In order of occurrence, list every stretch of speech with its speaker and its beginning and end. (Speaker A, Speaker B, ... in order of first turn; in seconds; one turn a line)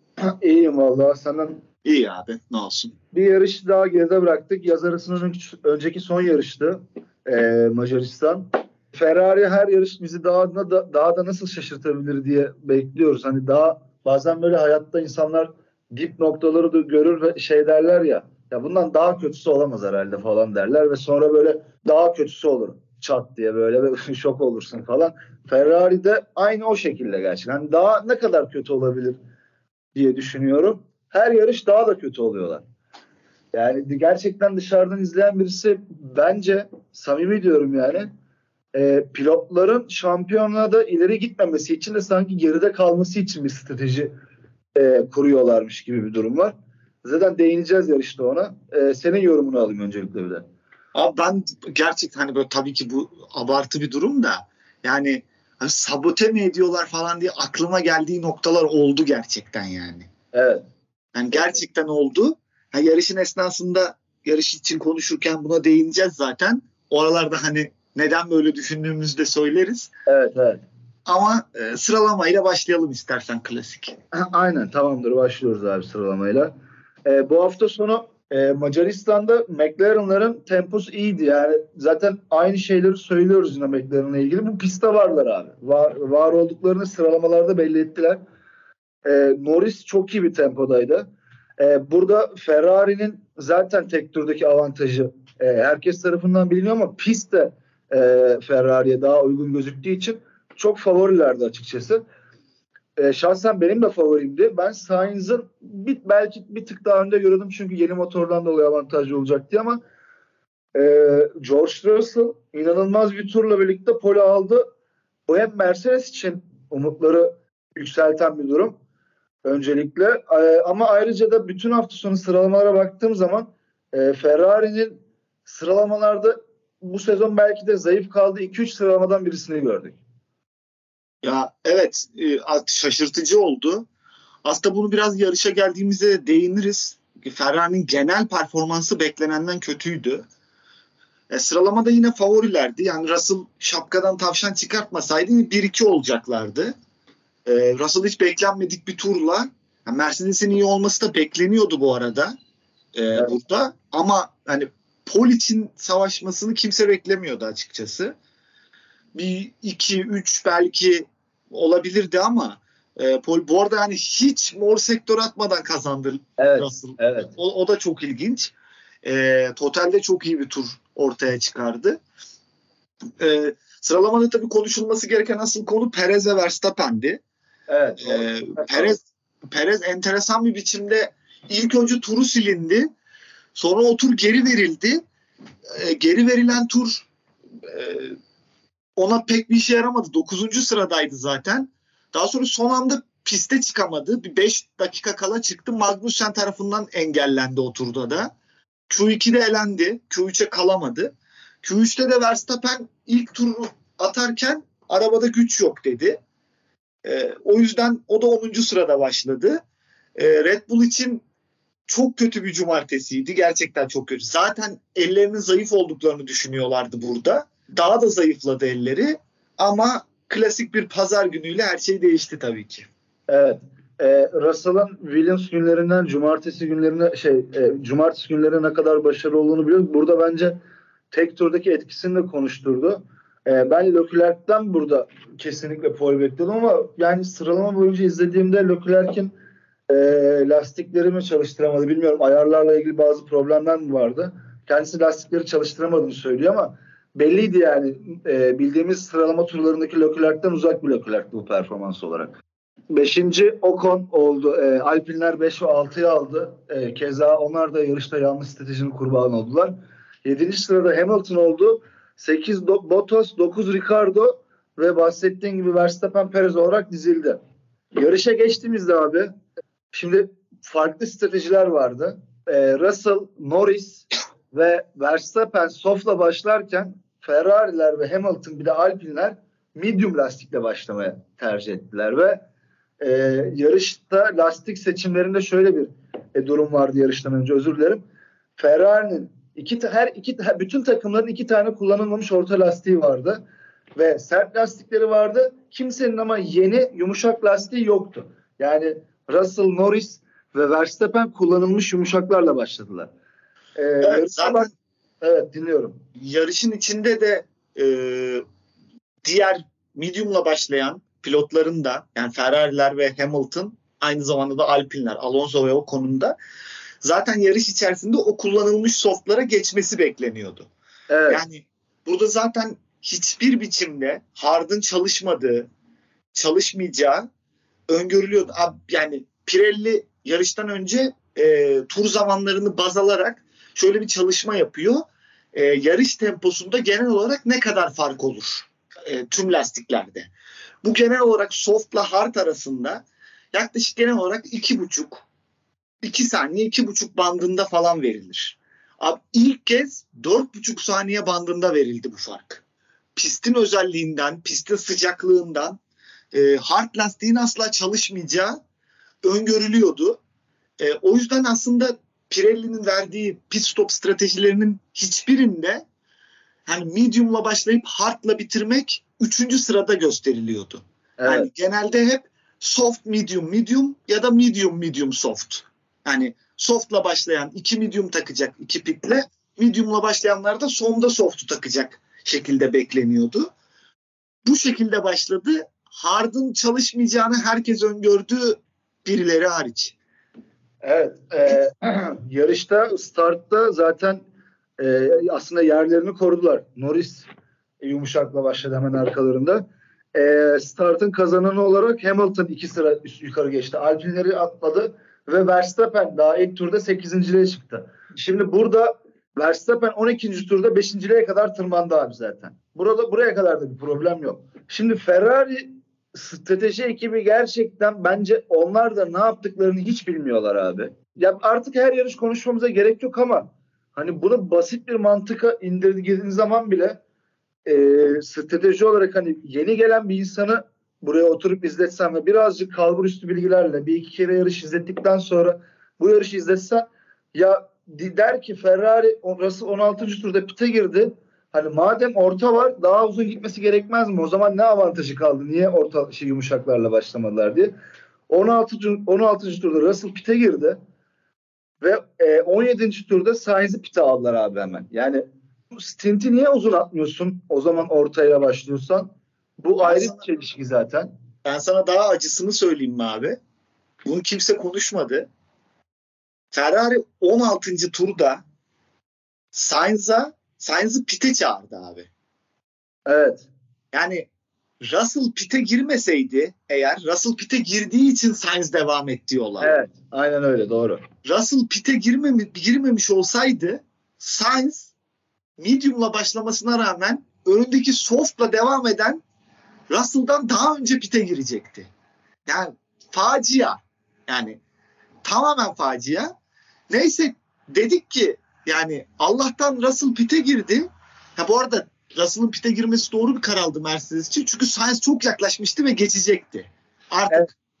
Speaker A: 0.2-1.6
Speaker B: 1.8-2.9
Speaker A: 3.1-29.2
Speaker A: 29.9-32.6
Speaker A: 33.5-38.1
Speaker A: 38.7-44.1
Speaker A: 44.7-50.4
Speaker B: 50.9-60.1
Speaker A: 60.3-60.6
Speaker B: 61.1-69.9
Speaker A: 61.3-61.6
Speaker A: 70.1-70.6
Speaker B: 71.0-74.0
Speaker A: 74.1-76.5
Speaker A: 77.0-88.2
Speaker A: 89.0-91.1
Speaker A: 91.6-102.0
Speaker A: 103.0-109.8
Speaker A: 110.7-114.7
Speaker A: 115.3-118.8
Speaker A: 119.4-130.0
Speaker B: 131.2-133.8
Speaker B: 134.4-140.2
Speaker B: 141.3-146.7
Speaker B: 147.4-152.3
Speaker B: 152.9-158.1
Speaker B: 159.1-172.0
Speaker A: 166.4-167.3
Speaker B: 173.2-177.2
Speaker A: 177.7-179.0
Speaker B: 178.0-182.9
Speaker B: 183.5-185.0
Speaker B: 185.7-187.1
Speaker B: 187.6-188.2
Speaker B: 188.9-198.3
Speaker B: 198.9-206.2
Speaker B: 207.0-209.6
Speaker B: 210.2-211.2
Speaker B: 211.9-222.9
Speaker A: 223.3-230.6
Speaker A: 231.1-239.3
Speaker A: 239.9-252.4
Speaker A: 252.9-267.4
Speaker A: 267.9-269.3
Speaker A: 269.9-282.4
Speaker A: 283.0-288.0
Speaker A: 288.6-293.4
Speaker A: 293.9-303.1
Speaker A: 303.8-306.0
Speaker B: 304.0-304.7
Speaker B: 306.2-308.4
Speaker B: 309.2-316.3
Speaker B: 317.0-320.7
Speaker A: 321.1-321.4
Speaker B: 321.3-325.7
Speaker B: 326.3-327.2
Speaker B: 327.9-340.3
Speaker B: 340.8-345.2
Speaker B: 346.0-352.6
Speaker B: 353.1-355.8
Speaker B: 356.3-358.6
Speaker B: 359.2-360.2
Speaker B: 360.8-365.8
Speaker B: 366.6-383.5
Speaker A: 371.2-371.5
Speaker B: 384.4-389.9
Speaker A: 390.8-394.2
Speaker A: 394.8-397.2
Speaker A: 397.8-427.0
Speaker A: 427.6-447.7
Speaker A: 448.3-450.8
Speaker A: 451.8-461.1
Speaker B: 459.8-460.2
Speaker B: 461.4-463.4
Speaker B: 464.0-465.3
Speaker B: 466.5-468.4
Speaker B: 469.5-472.1
Speaker A: 473.1-473.5
Speaker B: 473.9-474.3
Speaker B: 474.8-479.7
Speaker A: 479.6-481.0
Speaker B: 481.2-484.9
Speaker B: 485.6-489.2
Speaker B: 489.9-491.9
Speaker B: 492.5-494.6
Speaker B: 495.2-496.3
Speaker B: 496.9-507.5